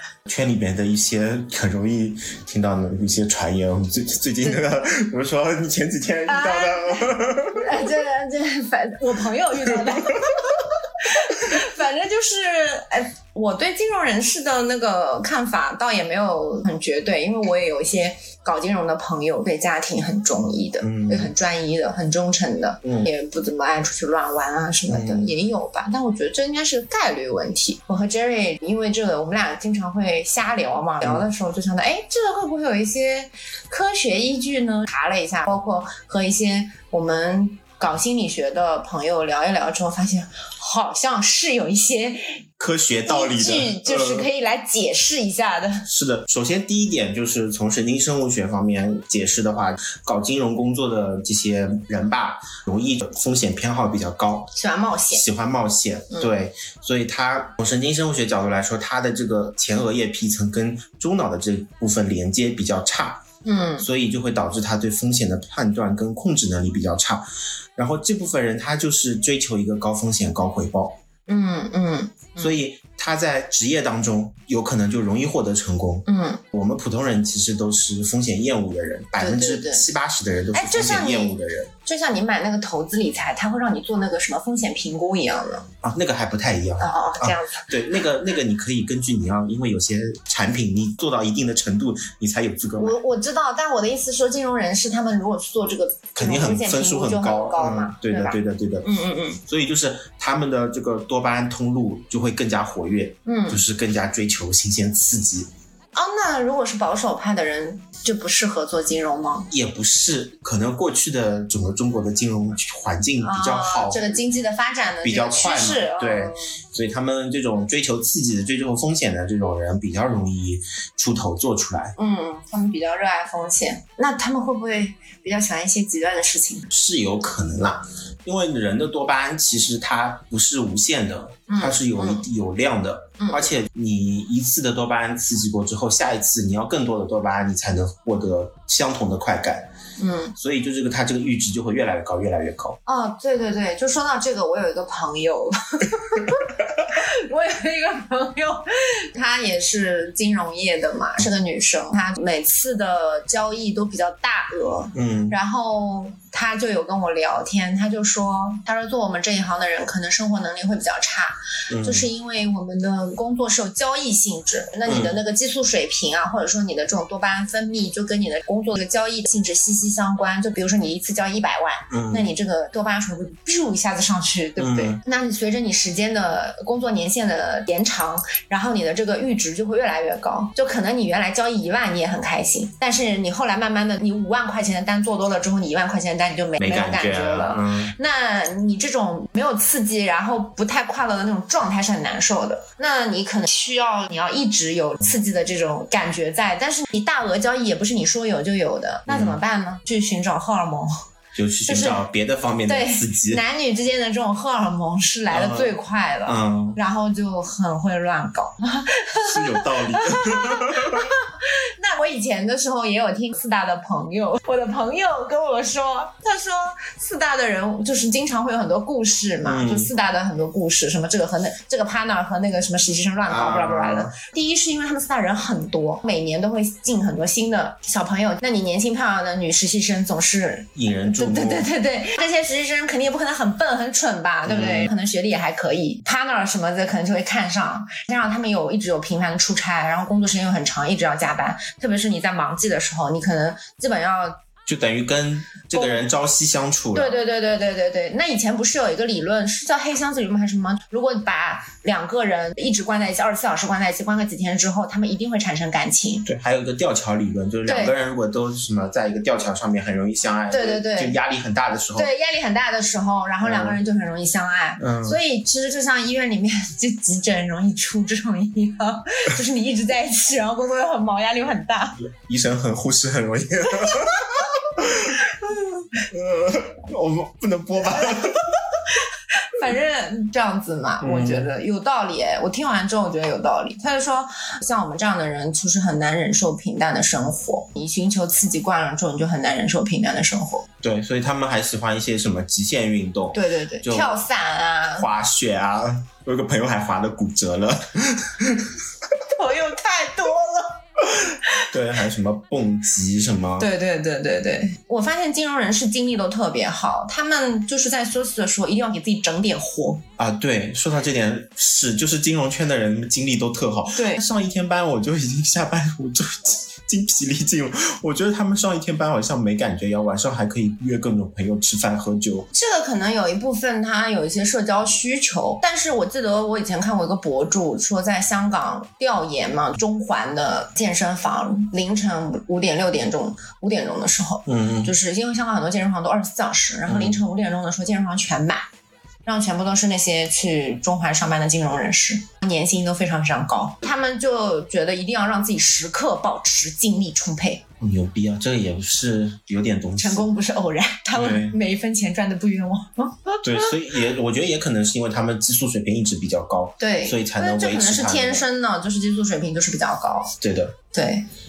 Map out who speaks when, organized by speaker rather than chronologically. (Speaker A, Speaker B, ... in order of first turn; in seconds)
Speaker A: 0.3-7.9, 9.6-10.5, 20.8-21.3, 22.8-23.1, 24.9-25.3, 42.6-44.3, 45.9-54.5, 55.1-63.2, 63.8-67.2, 67.8-71.0, 72.4-81.7, 85.8-93.0, 96.2-98.9, 99.5-105.5, 109.5-114.2, 115.0-122.0, 126.7-139.7, 140.4-142.8, 154.9-155.4, 161.7-162.1, 164.9-165.2, 171.9-172.3, 174.6-175.0, 186.6-187.9, 199.1-199.4, 201.3-203.4, 205.3-206.8, 209.2-211.1, 219.4-219.9, 223.3-224.2, 230.8-231.7, 234.5-234.9, 244.7-247.2, 256.3-262.1, 263.4-263.8, 264.8-265.2, 272.0-278.6, 281.0-281.5, 290.8-294.2, 294.9-298.8, 301.1-303.7, 310.2-322.5, 334.5-334.9, 336.9-337.2, 347.8-350.3, 351.1-351.6, 353.4-358.5, 360.4-360.8
Speaker B: 6.3-42.4, 43.0-45.9, 54.5-55.2, 63.5-63.9, 71.3-72.6, 76.1-76.4, 79.2-79.9, 80.5-85.7, 86.8-87.7, 92.8-99.4, 103.3-103.6, 105.9-109.5, 113.2-116.5, 122.0-126.7, 131.5-132.3, 133.2-133.5, 140.0-140.3, 142.9-200.9, 201.7-202.0, 202.7-244.4, 245.8-246.1, 246.9-256.3, 257.7-257.9, 260.5-261.2, 261.9-272.0, 273.9-274.1, 279.0-290.7, 293.3-295.1, 299.3-300.8, 303.6-310.0, 313.9-314.2, 322.5-338.7, 339.2-347.6, 350.0-353.8, 356.8-360.4, 360.9-361.3